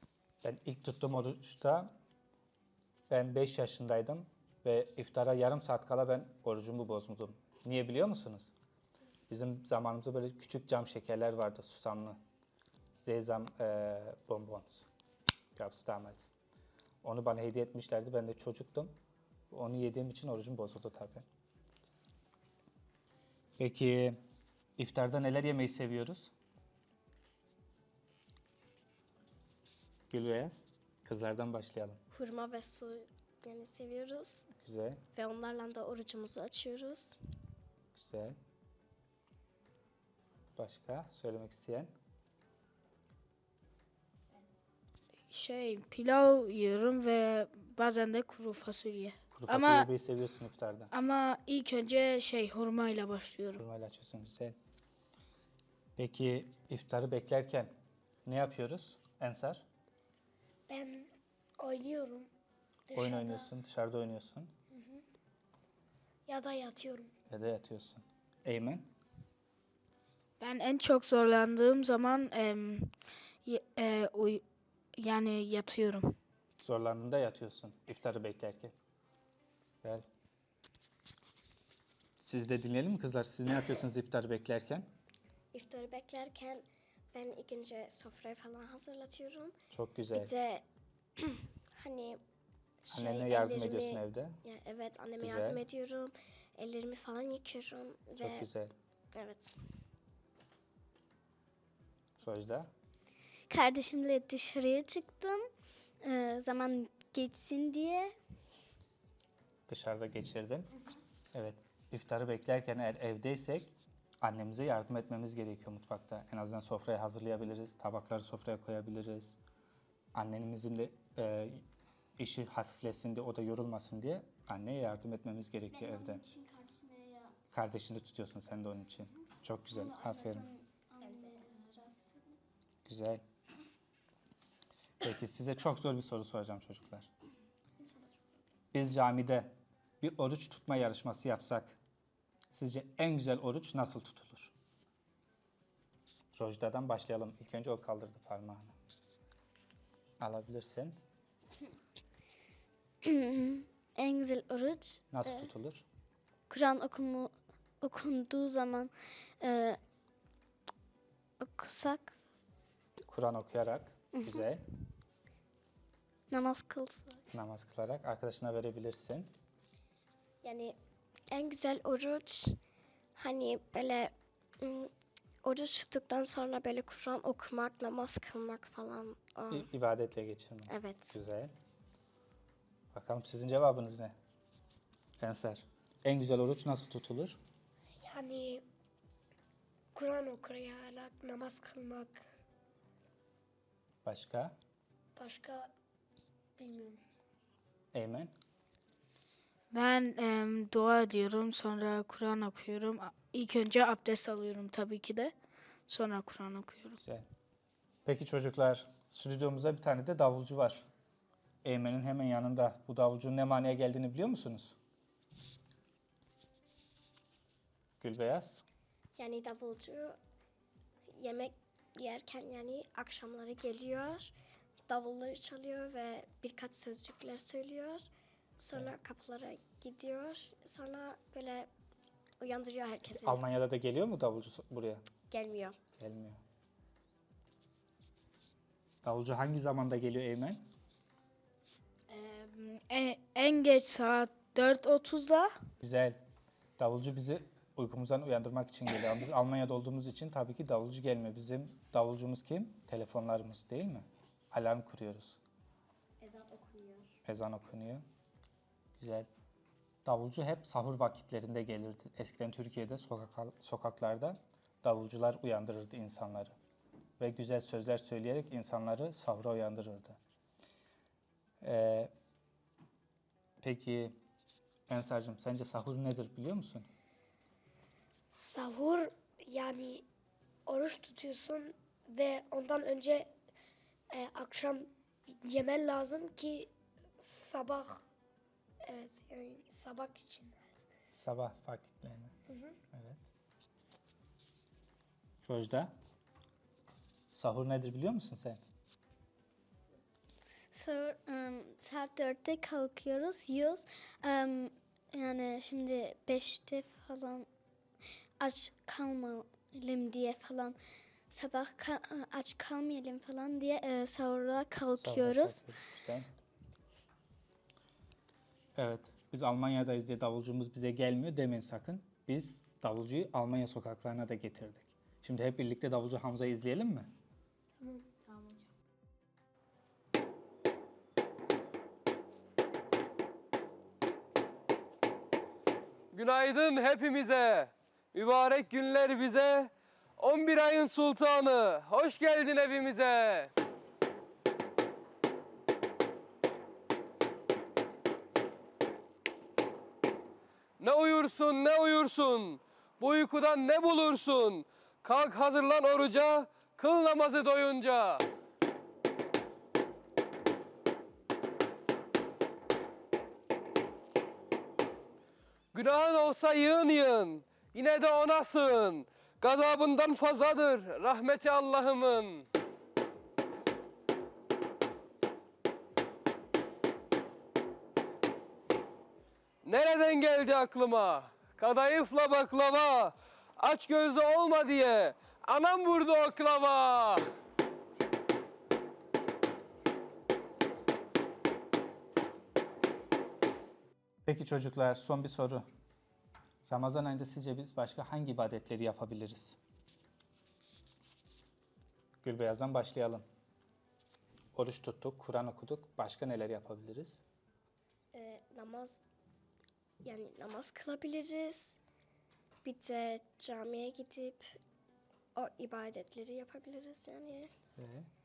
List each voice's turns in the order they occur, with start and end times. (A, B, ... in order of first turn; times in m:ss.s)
0:00.4-0:01.9 A
0:03.1-0:08.5 A
0:09.3-0:12.2 A
0:12.9-0:14.8 A
0:15.6-0:16.3 A
0:17.0-0:18.9 A
0:19.5-0:21.2 A
0:23.6-0:24.2 A
0:24.8-0:26.3 A
0:30.1-0:32.0 A
0:32.1-0:34.5 B
0:34.5-0:35.0 A
0:35.1-0:37.2 B
0:37.9-0:38.4 A
0:40.6-0:41.9 A
0:45.3-0:49.9 C
0:49.3-0:50.9 A
0:50.9-0:53.6 C
0:53.6-0:54.6 A
0:56.0-0:57.7 A
0:58.2-0:59.6 A
1:00.7-1:02.3 D
1:02.9-1:03.5 D
1:02.9-1:04.5 A
1:04.7-1:05.0 D
1:06.3-1:07.1 D
1:07.3-1:08.9 A
1:10.4-1:12.9 C
1:13.4-1:14.4 C
1:14.9-1:16.1 C
1:16.6-1:18.7 A
1:22.2-1:24.9 A
1:25.5-1:29.5 B
1:29.7-1:30.3 A
1:30.1-1:30.6 B
1:31.2-1:32.2 B
1:32.8-1:38.5 B
1:32.9-1:34.4 A
1:35.2-1:35.6 A
1:38.2-1:38.7 A
1:39.1-1:39.5 B
1:42.2-1:42.7 A
1:43.5-1:45.4 E
1:46.0-1:48.1 E
1:49.7-1:50.7 A
1:51.3-1:59.4 A
2:00.1-2:01.6 A
2:02.2-2:06.2 A
2:05.7-2:07.4 E
2:07.5-2:10.5 A
2:09.7-2:12.4 E
2:11.0-2:11.5 B
2:12.8-2:13.2 A
2:15.0-2:17.1 A
2:17.8-2:18.2 E
2:18.7-2:21.8 A
2:22.5-2:24.5 A
2:26.3-2:28.7 A
2:30.2-2:31.0 A
2:33.0-2:35.5 E
2:35.1-2:35.8 A
2:36.5-2:39.8 E
2:41.4-2:42.1 E
2:43.1-2:44.6 A
2:44.1-2:44.4 E
2:46.3-2:47.2 E
2:47.3-2:49.3 A
2:50.4-2:50.8 B
2:51.3-2:52.6 B
2:53.2-2:54.9 B
2:55.4-2:59.7 B
2:59.5-3:01.5 A
3:00.7-3:01.1 B
3:02.9-3:04.1 A
3:05.2-3:07.4 A
3:08.0-3:08.6 D
3:09.9-3:12.2 D
3:14.0-3:14.5 A
3:15.2-3:15.7 D
3:16.6-3:17.0 D
3:17.9-3:18.3 A
3:19.7-3:25.3 C
3:25.9-3:27.0 C
3:28.0-3:30.8 A
3:31.6-3:34.8 A
3:38.0-3:38.6 A
3:39.2-3:40.2 B
3:41.2-3:44.3 B
3:44.9-3:51.7 B
3:52.4-3:53.4 B
3:53.2-3:55.0 A
3:55.3-3:55.8 B
3:56.0-3:56.4 A
3:59.0-4:00.6 A
4:02.1-4:05.5 C
4:05.8-4:06.2 A
4:06.8-4:15.4 A
4:16.2-4:17.1 B
4:17.2-4:18.0 A
4:19.0-4:19.3 A
4:20.0-4:26.5 A
4:27.2-4:30.2 A
4:31.6-4:32.1 A
4:33.6-4:34.2 A
4:34.9-4:36.9 A
4:38.3-4:40.0 D
4:40.7-4:43.3 D
4:44.1-4:48.0 D
4:48.8-4:50.8 D
4:51.1-4:52.3 A
4:52.5-4:52.8 D
4:52.9-4:53.2 A
4:55.4-4:55.9 A
4:57.3-4:58.6 A
5:00.7-5:07.5 E
5:08.4-5:10.8 E
5:11.3-5:15.6 E
5:15.0-5:16.3 A
5:18.8-5:27.1 A
5:36.1-5:43.5 F
5:50.8-5:58.2 F
6:05.7-6:12.4 F
6:19.6-6:27.3 F
6:34.2-6:35.6 A
6:36.7-6:39.6 A
6:42.2-6:43.2 A
6:44.5-6:47.2 A
6:48.1-6:49.0 B
6:50.0-6:51.8 B
6:52.6-6:54.6 B
6:55.3-6:57.5 B
6:57.8-6:58.1 A